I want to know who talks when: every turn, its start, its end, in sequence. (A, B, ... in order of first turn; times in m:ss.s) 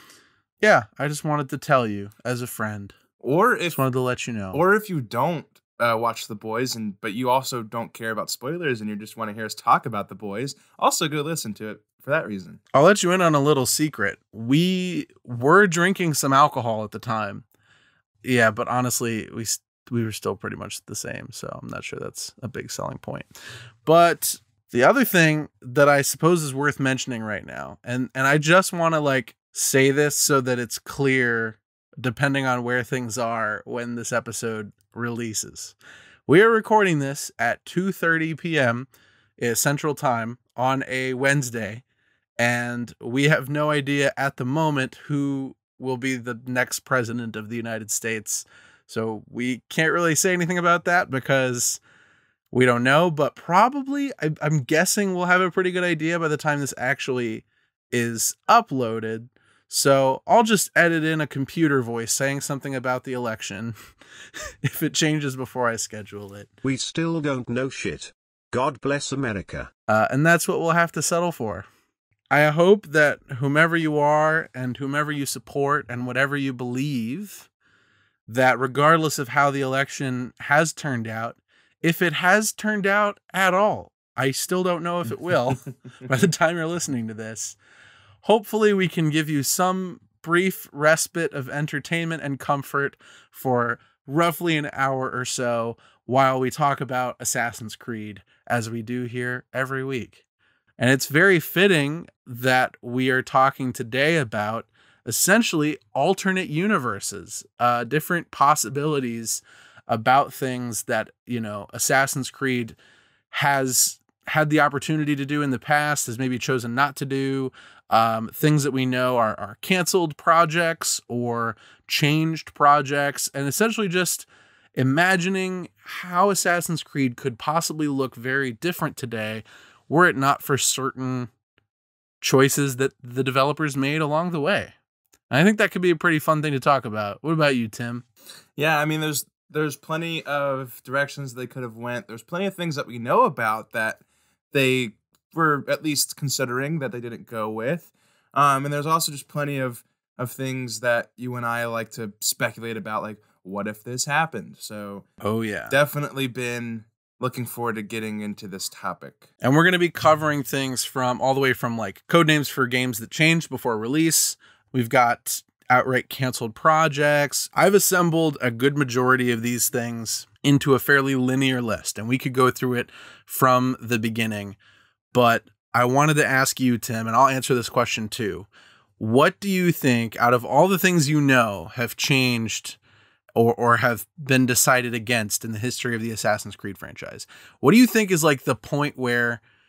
0:00.6-0:03.0 A
0:03.2-0:03.8 B
0:03.7-0:04.6 A
0:04.5-0:12.6 B
0:12.7-0:17.4 A
0:18.2-0:23.3 A
0:23.8-0:35.7 A
0:36.3-0:38.9 A
0:39.4-0:41.8 A
0:42.4-0:51.8 A
0:52.5-1:03.7 A
1:04.6-1:06.5 A
1:06.6-1:09.7 C
1:09.9-1:11.6 A
1:12.3-1:17.5 A
1:18.3-1:27.6 A
1:28.2-1:40.2 A
1:40.8-1:52.8 A
1:53.3-2:11.3 A
2:12.2-2:14.7 A
2:15.3-2:18.0 A
2:18.6-2:35.0 B
2:35.2-2:35.8 A
2:35.7-2:39.2 B
2:39.4-2:54.6 A
2:55.1-2:58.5 A
2:59.0-3:02.8 A
3:03.4-3:09.4 A